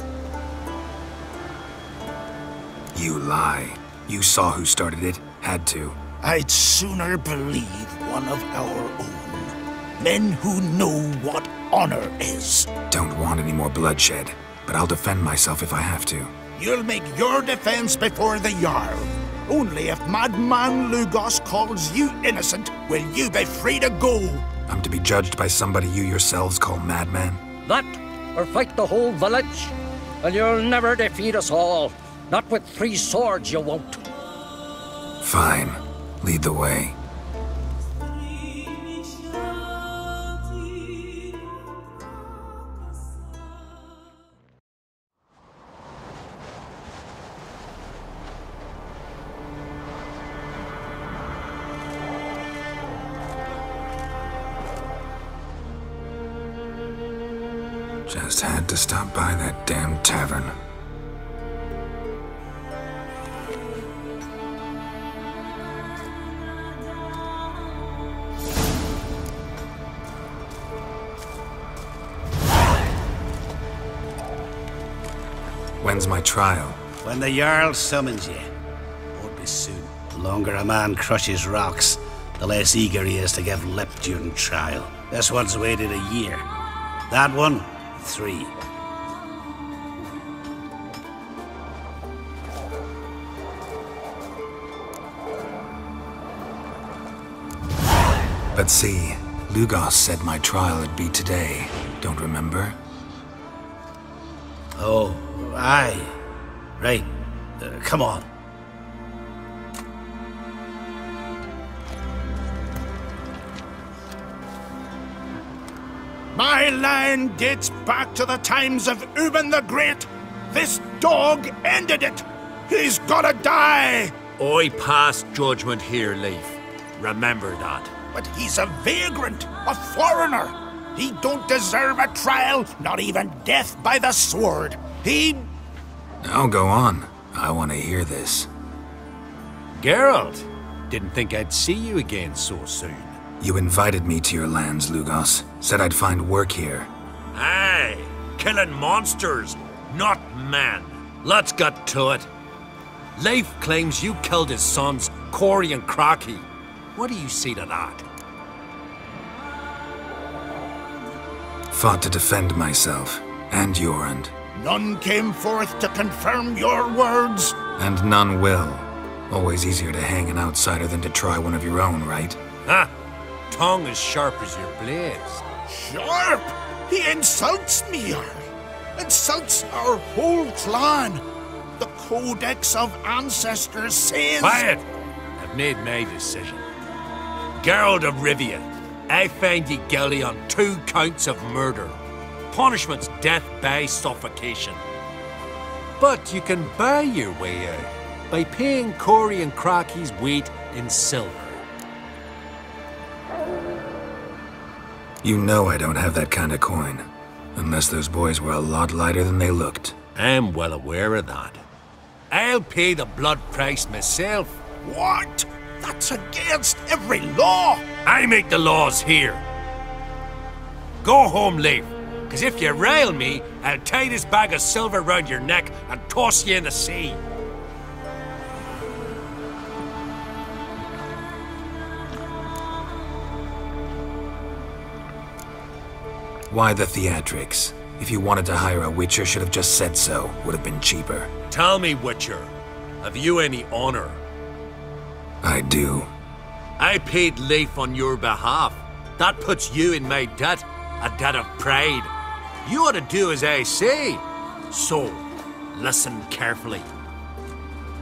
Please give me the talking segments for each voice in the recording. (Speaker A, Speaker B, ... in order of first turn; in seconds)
Speaker A: 2.9-6.0, 12.9-16.3, 24.7-27.4, 35.2-37.0, 58.0-60.5, 75.8-76.8, 98.5-102.8, 136.2-138.5, 143.4-146.9, 161.7-164.3, 167.8-172.4, 205.2-209.9, 236.5-241.3, 245.4-246.1
Speaker B: 6.2-12.7, 16.5-24.4, 116.3-124.1, 128.1-135.5, 164.5-167.5, 175.7-178.4, 179.0-181.2, 181.8-184.7, 214.8-217.8
Speaker C: 27.6-34.0
Speaker D: 77.0-78.5, 79.1-86.4, 87.1-88.5, 104.8-106.2, 106.8-108.3
Speaker E: 124.4-127.9, 139.8-143.2, 147.3-152.3, 153.2-158.0, 172.6-172.9, 173.5-175.4, 184.4-184.8, 185.3-186.6, 187.6-192.0, 192.5-194.8, 196.0-201.6, 210.1-211.6, 212.3-214.6, 218.0-219.4, 221.0-227.2, 241.5-244.2, 246.8-252.1, 252.6-256.9